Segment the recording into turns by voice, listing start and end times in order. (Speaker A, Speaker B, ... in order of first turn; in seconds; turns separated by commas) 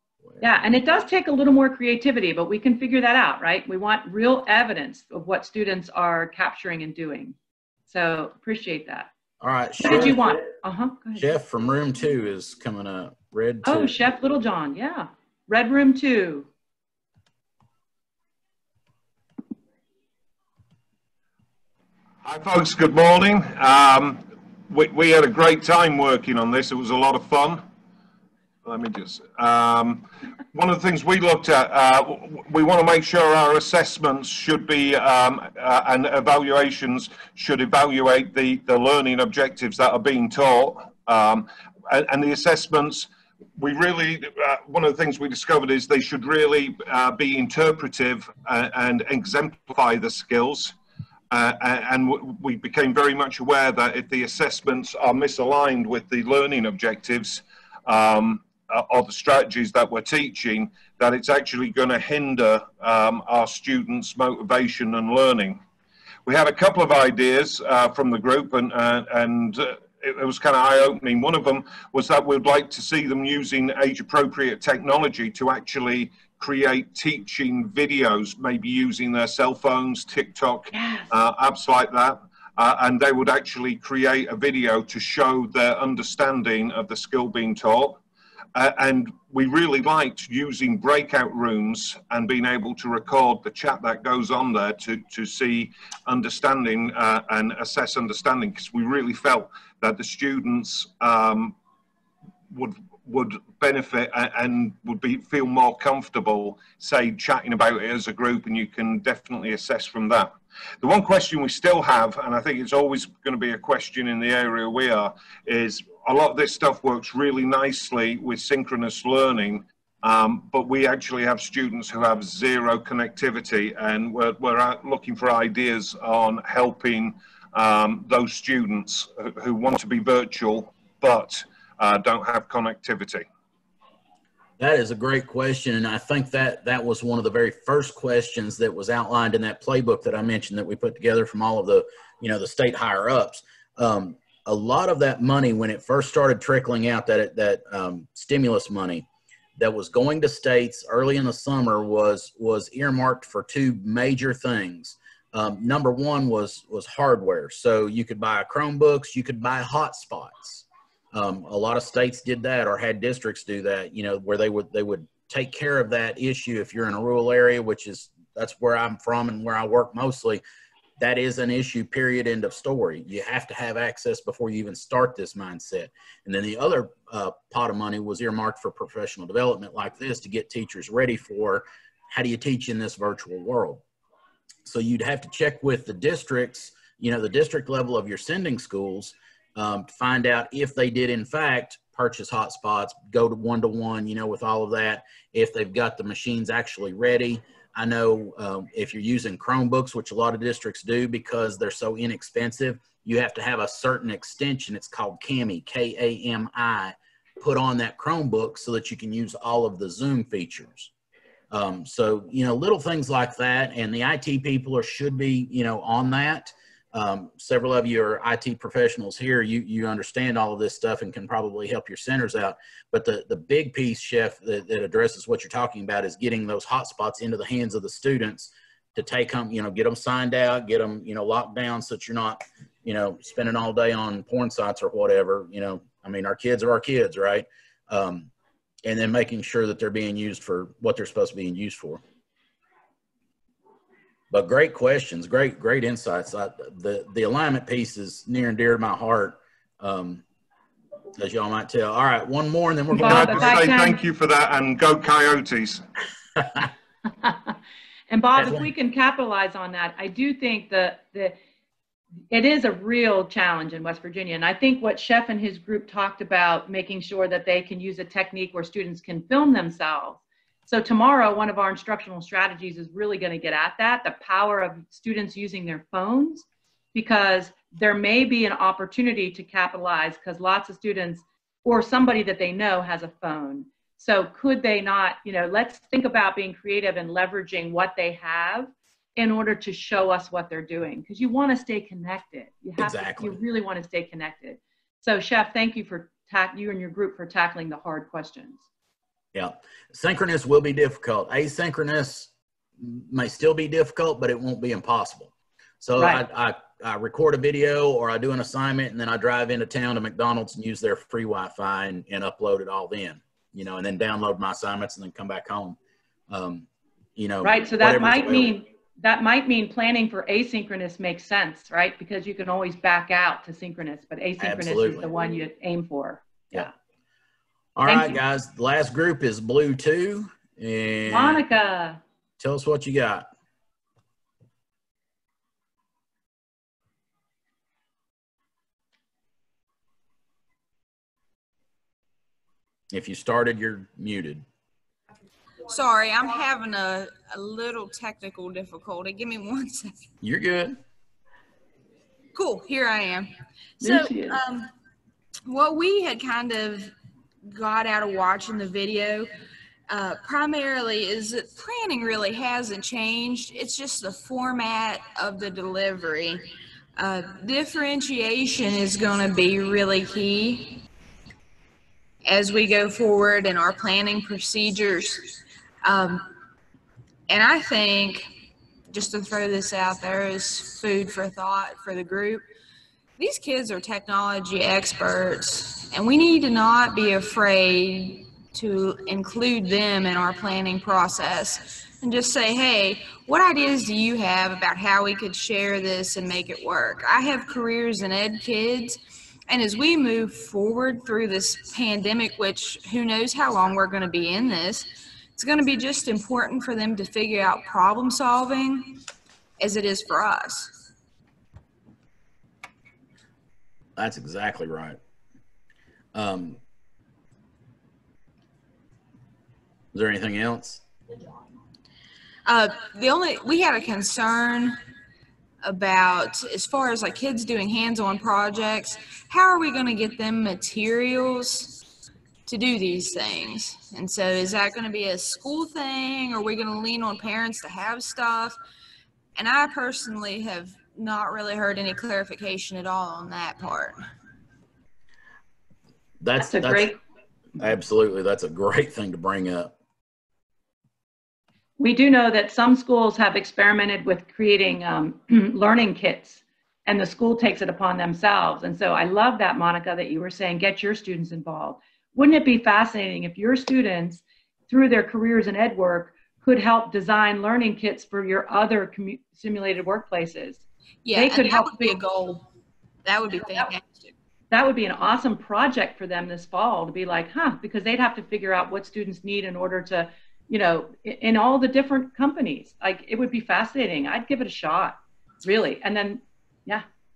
Speaker A: 0.4-7.3, Speaker A: 7.9-9.1, Speaker B: 9.4-10.3, Speaker A: 9.8-11.3, Speaker B: 11.2-14.0, Speaker A: 13.6-16.5, Speaker C: 22.2-27.6, Speaker C: 28.6-50.8, Speaker C: 51.3-65.6, Speaker C: 66.3-88.0, Speaker A: 80.7-81.1, Speaker C: 88.5-101.6, Speaker C: 102.5-133.3, Speaker B: 134.6-149.1, Speaker B: 149.6-170.4, Speaker B: 171.0-183.8, Speaker B: 184.7-210.9, Speaker B: 211.5-238.3, Speaker B: 238.8-242.0, Speaker B: 244.3-250.2, Speaker B: 251.2-253.6, Speaker A: 252.9-254.0, Speaker C: 253.0-255.8, Speaker B: 256.4-256.7, Speaker A: 257.2-257.5, Speaker A: 258.1-261.4, Speaker B: 258.4-258.7, Speaker A: 262.3-298.6, Speaker B: 292.8-293.4, Speaker B: 299.3-302.3, Speaker B: 302.8-315.8, Speaker A: 306.0-306.2, Speaker B: 316.3-318.5, Speaker A: 317.4-326.7, Speaker B: 324.4-325.1, Speaker B: 327.8-331.4, Speaker A: 327.9-328.2, Speaker A: 331.1-332.0, Speaker B: 332.4-333.3, Speaker B: 342.9-344.4, Speaker D: 345.7-350.0, Speaker B: 350.2-350.8, Speaker D: 352.3-353.3, Speaker D: 353.8-354.7, Speaker A: 353.8-354.4, Speaker D: 355.5-356.9, Speaker D: 357.4-359.3, Speaker D: 359.9-366.5, Speaker D: 367.0-370.8, Speaker D: 372.2-376.3, Speaker D: 377.3-378.3, Speaker D: 378.9-382.4, Speaker D: 383.2-409.0, Speaker D: 409.6-410.7, Speaker B: 414.0-415.0, Speaker B: 416.1-416.6, Speaker B: 419.9-420.8, Speaker D: 422.5-424.8, Speaker D: 425.6-431.8, Speaker D: 432.5-438.6, Speaker D: 439.4-444.0, Speaker B: 446.2-446.9, Speaker A: 446.4-447.0, Speaker B: 447.6-449.7, Speaker A: 451.8-470.6, Speaker D: 471.1-472.4, Speaker A: 471.1-472.0, Speaker D: 473.1-474.1, Speaker A: 474.5-486.9